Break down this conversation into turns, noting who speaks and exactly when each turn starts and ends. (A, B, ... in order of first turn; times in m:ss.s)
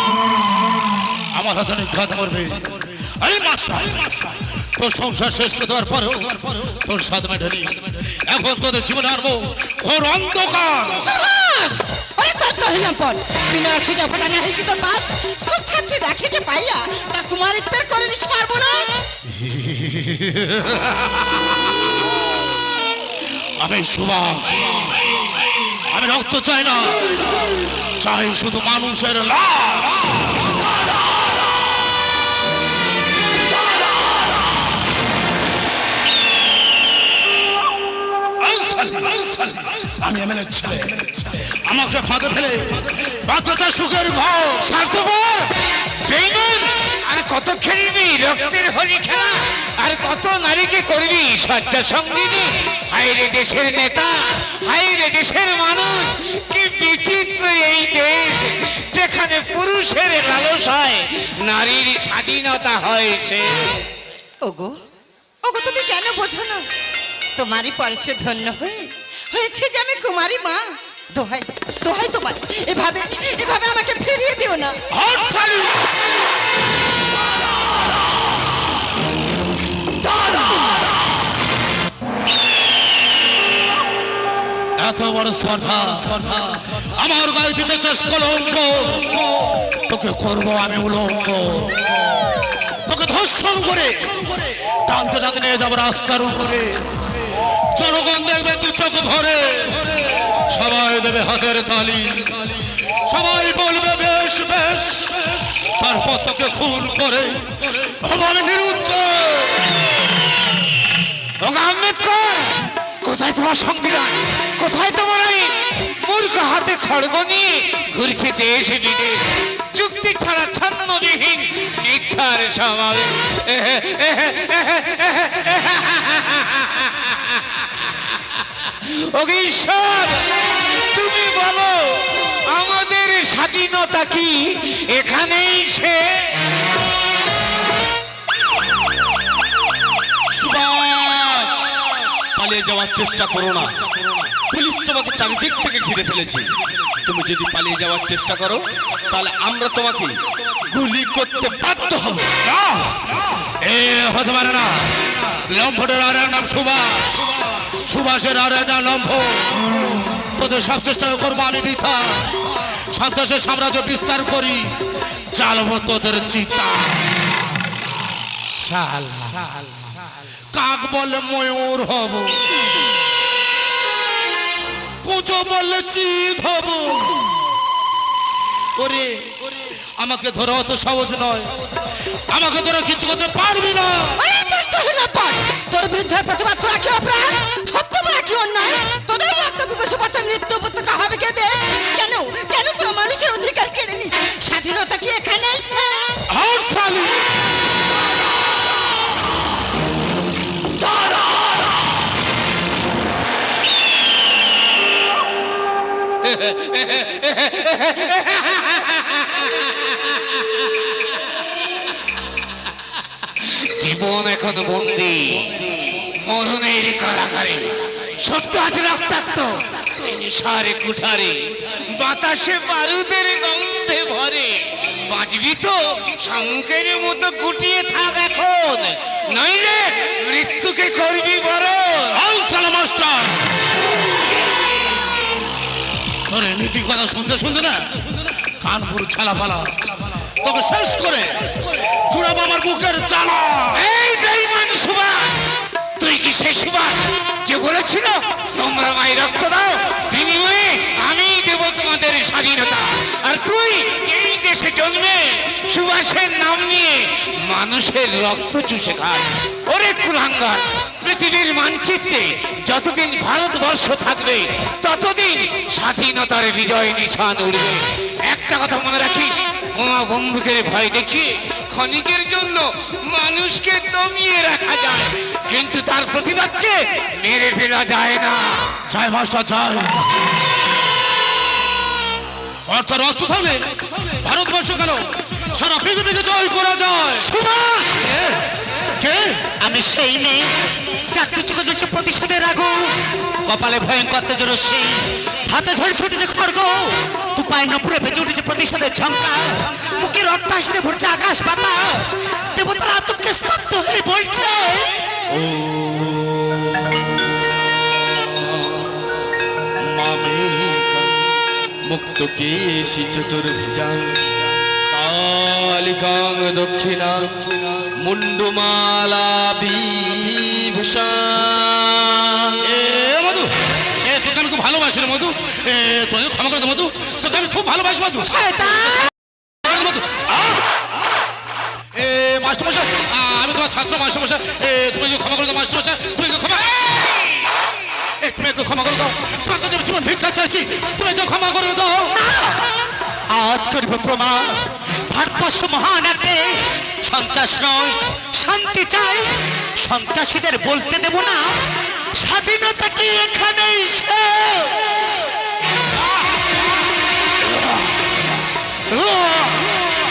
0:01.3-0:11.1 A
0:11.1-0:19.0 B
0:19.5-0:20.8 A
0:23.6-0:25.0 A
0:25.9-0:27.2 A
0:28.0-0:30.4 A
0:38.4-0:44.7 A
0:44.6-0:45.5 C
0:46.0-1:03.8 C
1:04.4-1:04.8 B
1:05.4-1:06.6 B
1:07.4-1:14.8 B
1:14.9-1:15.7 A
1:24.8-1:32.2 A
1:32.8-1:49.7 A
1:51.4-1:59.2 C
1:59.7-2:16.4 C
2:20.4-2:21.2 A
2:20.9-2:21.7 D
2:22.3-2:30.2 D
2:30.7-2:32.3 D
2:32.4-2:33.0 A
2:33.6-2:44.7 A
2:45.3-2:47.1 A
2:48.5-2:49.7 C
2:50.5-2:52.4 A
2:55.0-2:57.3 A
2:58.8-3:04.2 A
3:04.2-3:16.1 B
3:16.3-3:17.2 A
3:26.2-3:30.7 C
3:33.4-3:52.2 C
3:52.1-3:53.4 A
3:56.3-4:03.8 A
4:03.7-4:05.2 C
4:06.0-4:38.8 C
4:38.9-4:40.0 A
4:42.7-4:47.3 A
4:47.2-4:48.0 E
4:48.9-4:49.4 A
4:49.6-5:05.0 E
5:05.3-5:07.2 D
5:08.0-5:08.9 D
5:09.8-5:11.3 D
5:11.8-5:14.4 D
5:14.9-5:22.5 D
5:22.6-5:23.5 A
5:24.0-5:29.0 A
5:28.3-5:29.1 E
5:29.6-5:30.6 A
5:31.9-5:37.3 A
5:38.2-5:42.1 A
5:42.2-5:42.6 E
5:43.3-5:54.8 E
5:58.9-5:59.5 A